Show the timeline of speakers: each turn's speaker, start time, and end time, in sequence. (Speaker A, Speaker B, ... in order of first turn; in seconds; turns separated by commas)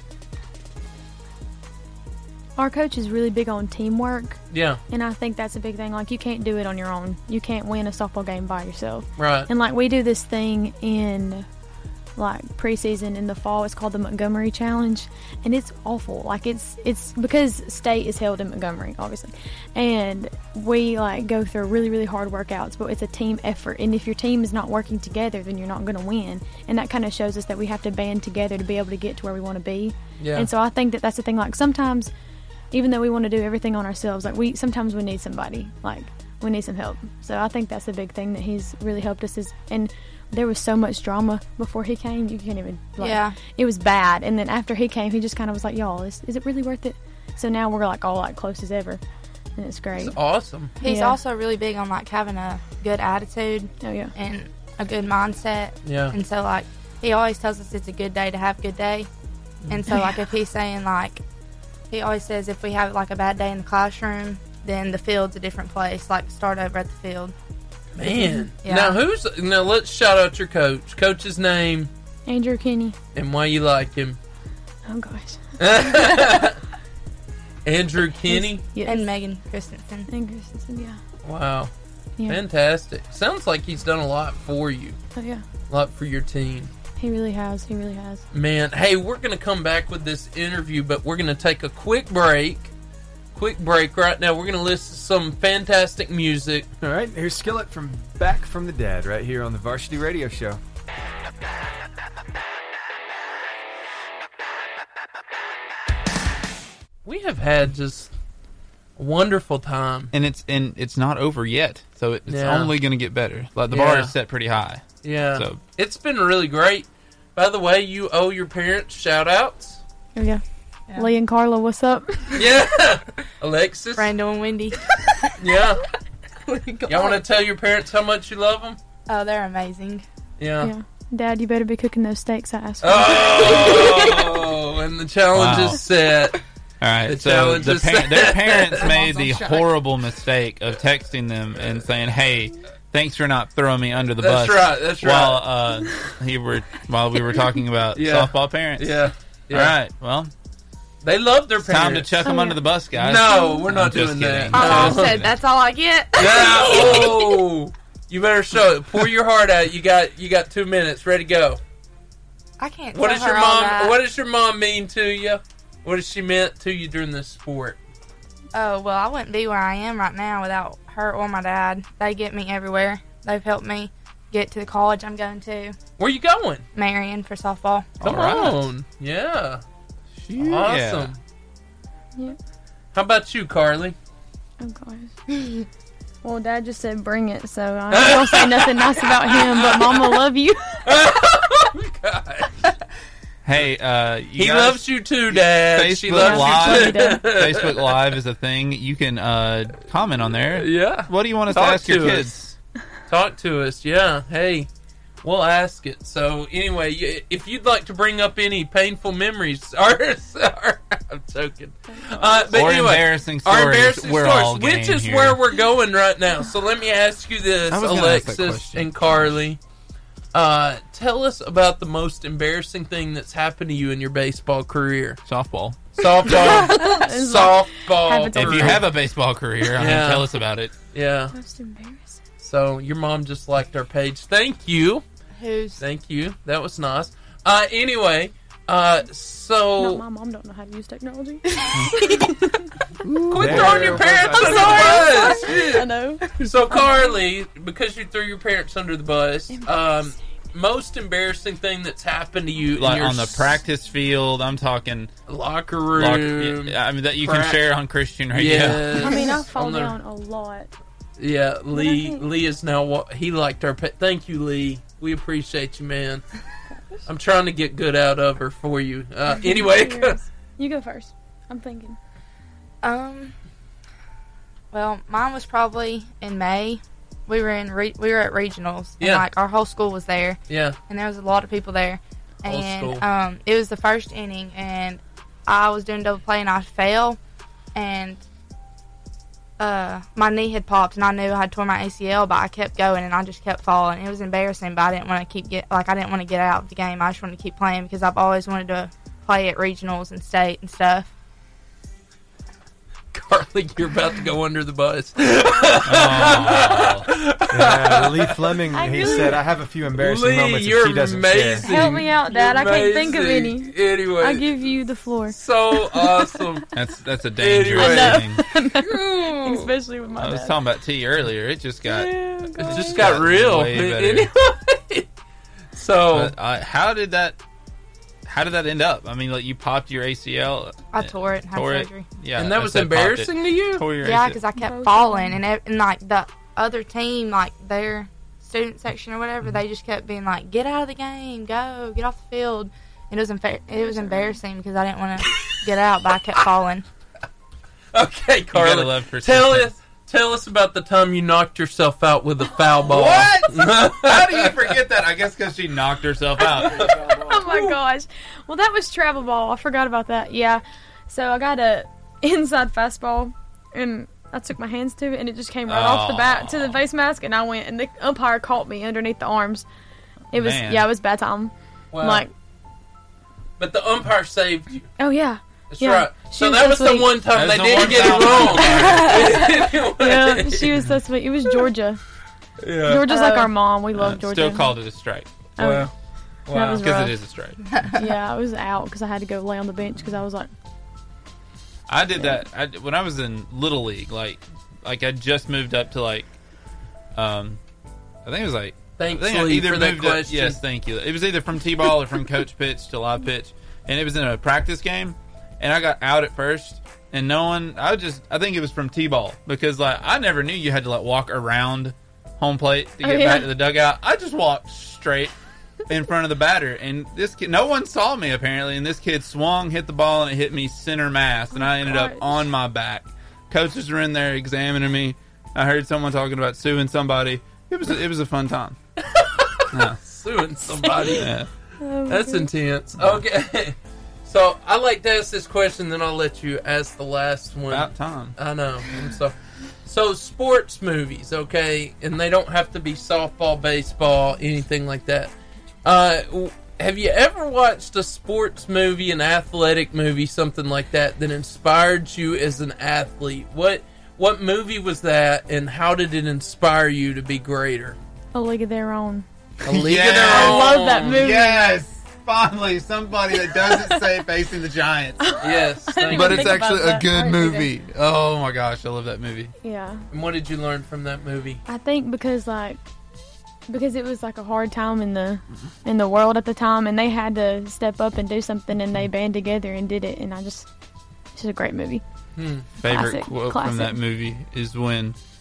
Speaker A: 2.6-11.5, Speaker B: 4.5-4.8, Speaker B: 9.2-9.5, Speaker A: 12.2-32.1, Speaker B: 30.2-30.5, Speaker A: 32.7-49.0, Speaker C: 43.0-43.4, Speaker A: 49.6-50.2, Speaker B: 50.0-50.7, Speaker C: 50.8-59.1, Speaker A: 50.8-51.2, Speaker A: 53.8-54.1, Speaker B: 55.9-56.2, Speaker C: 59.7-61.2, Speaker C: 61.9-67.3, Speaker B: 68.0-71.9, Speaker C: 68.6-69.0, Speaker A: 72.3-73.0, Speaker B: 73.2-74.2, Speaker A: 74.9-75.6, Speaker B: 75.6-76.6, Speaker B: 77.7-78.6, Speaker A: 78.2-79.1, Speaker C: 78.8-80.1, Speaker A: 80.1-81.0, Speaker B: 81.2-81.7, Speaker B: 82.3-85.0, Speaker A: 85.2-85.5, Speaker B: 85.7-86.7, Speaker A: 87.0-88.2, Speaker B: 88.3-92.7, Speaker B: 93.3-96.7, Speaker D: 96.8-100.6, Speaker B: 107.0-108.1, Speaker B: 109.0-110.1, Speaker E: 110.1-115.6, Speaker B: 112.3-112.7, Speaker B: 113.7-114.2, Speaker B: 115.0-119.8, Speaker A: 120.2-120.4, Speaker A: 120.9-122.4, Speaker B: 122.3-124.1, Speaker C: 124.0-125.3, Speaker B: 125.4-125.9, Speaker C: 126.5-127.2, Speaker B: 126.9-128.8, Speaker C: 129.1-130.1, Speaker B: 130.4-130.7, Speaker A: 130.6-134.3, Speaker B: 132.8-136.4, Speaker E: 135.3-135.8, Speaker E: 136.8-150.3, Speaker B: 137.1-139.2, Speaker B: 144.2-145.5, Speaker B: 147.9-149.8, Speaker B: 151.0-152.3, Speaker E: 151.6-155.4, Speaker A: 152.2-152.7, Speaker B: 152.9-155.2, Speaker A: 153.2-153.7, Speaker C: 154.5-157.4, Speaker B: 156.2-161.6, Speaker C: 162.6-164.0, Speaker B: 162.9-167.8, Speaker C: 168.5-175.8, Speaker B: 176.0-176.7, Speaker C: 176.8-178.0, Speaker B: 178.0-179.6, Speaker E: 178.0-178.6, Speaker E: 180.2-181.1, Speaker B: 180.3-181.2, Speaker B: 182.9-184.0, Speaker A: 184.6-185.1, Speaker C: 185.3-185.6, Speaker A: 186.2-190.9, Speaker B: 187.9-190.2, Speaker B: 190.8-192.7, Speaker E: 193.4-202.6, Speaker B: 194.4-198.0, Speaker A: 196.2-197.3, Speaker B: 200.5-202.3, Speaker B: 203.1-204.7, Speaker B: 205.2-219.6, Speaker A: 211.9-212.6, Speaker E: 212.5-215.4, Speaker E: 217.7-219.3, Speaker B: 220.3-225.2, Speaker E: 225.3-225.8, Speaker B: 225.9-228.8, Speaker A: 226.3-229.0, Speaker E: 228.3-230.7, Speaker B: 229.7-230.3, Speaker B: 230.9-231.3, Speaker A: 231.3-232.2, Speaker B: 232.4-235.1, Speaker C: 235.4-235.8, Speaker B: 235.8-240.0, Speaker A: 239.8-242.3, Speaker E: 243.1-244.1, Speaker B: 243.3-253.5, Speaker D: 243.3-245.2, Speaker A: 244.2-247.1, Speaker A: 249.5-250.2, Speaker E: 252.8-255.1, Speaker B: 255.3-257.6, Speaker E: 255.9-259.2, Speaker B: 258.3-260.0, Speaker A: 258.9-260.7, Speaker B: 261.2-266.3, Speaker A: 261.7-262.2, Speaker A: 266.7-267.0, Speaker B: 267.1-270.2, Speaker A: 269.3-272.0, Speaker C: 272.8-273.4, Speaker C: 274.7-287.2, Speaker B: 279.0-279.3, Speaker B: 280.5-280.8, Speaker B: 282.5-283.0, Speaker C: 287.8-288.2, Speaker C: 289.6-301.1, Speaker B: 303.1-309.2, Speaker E: 305.8-307.1, Speaker D: 307.5-311.7, Speaker A: 308.7-309.4, Speaker B: 310.0-314.5, Speaker A: 311.6-316.4, Speaker B: 315.3-316.7, Speaker E: 316.7-318.4, Speaker B: 317.4-318.3, Speaker A: 317.8-320.6, Speaker B: 318.9-319.6, Speaker E: 320.2-324.3, Speaker A: 321.9-323.2, Speaker B: 321.9-325.1, Speaker B: 325.7-326.4, Speaker E: 326.1-327.4, Speaker E: 328.3-334.4, Speaker C: 330.9-332.1, Speaker B: 332.4-333.9, Speaker C: 334.0-346.9, Speaker A: 334.5-335.4, Speaker A: 343.7-344.4, Speaker B: 347.9-354.7, Speaker E: 348.5-349.7, Speaker E: 352.8-356.9, Speaker B: 356.4-357.7, Speaker A: 356.9-369.7, Speaker E: 365.7-366.8, Speaker A: 370.3-372.3, Speaker E: 370.3-370.9, Speaker B: 371.9-372.3, Speaker B: 373.6-374.9, Speaker A: 375.0-377.2, Speaker B: 375.7-380.8, Speaker E: 377.3-379.4, Speaker A: 377.8-382.0, Speaker B: 382.6-383.5, Speaker A: 382.9-384.8, Speaker E: 383.9-385.3, Speaker A: 385.6-385.9, Speaker B: 385.6-385.9, Speaker B: 386.5-386.9, Speaker A: 386.5-387.2, Speaker E: 386.7-387.6, Speaker A: 387.9-390.5, Speaker E: 391.9-396.3, Speaker A: 392.1-392.4, Speaker E: 397.1-397.6, Speaker E: 398.2-415.3, Speaker B: 399.0-400.6, Speaker A: 413.0-413.6, Speaker E: 415.9-428.8, Speaker A: 421.5-422.3, Speaker B: 429.0-431.3, Speaker E: 429.7-430.0, Speaker A: 430.6-432.5, Speaker E: 431.2-431.5, Speaker B: 432.1-445.3, Speaker E: 433.0-433.2, Speaker E: 437.7-438.3, Speaker B: 445.8-458.0, Speaker A: 458.3-459.3, Speaker B: 459.6-461.2, Speaker E: 459.7-465.4, Speaker A: 459.9-461.8, Speaker A: 463.3-464.2, Speaker A: 465.2-467.7, Speaker B: 465.4-466.7, Speaker E: 466.1-469.5, Speaker A: 469.6-470.0, Speaker B: 470.1-471.6, Speaker A: 471.7-472.8, Speaker A: 473.7-480.7, Speaker A: 481.4-482.0, Speaker B: 482.4-482.7, Speaker E: 482.8-485.2, Speaker A: 482.8-484.0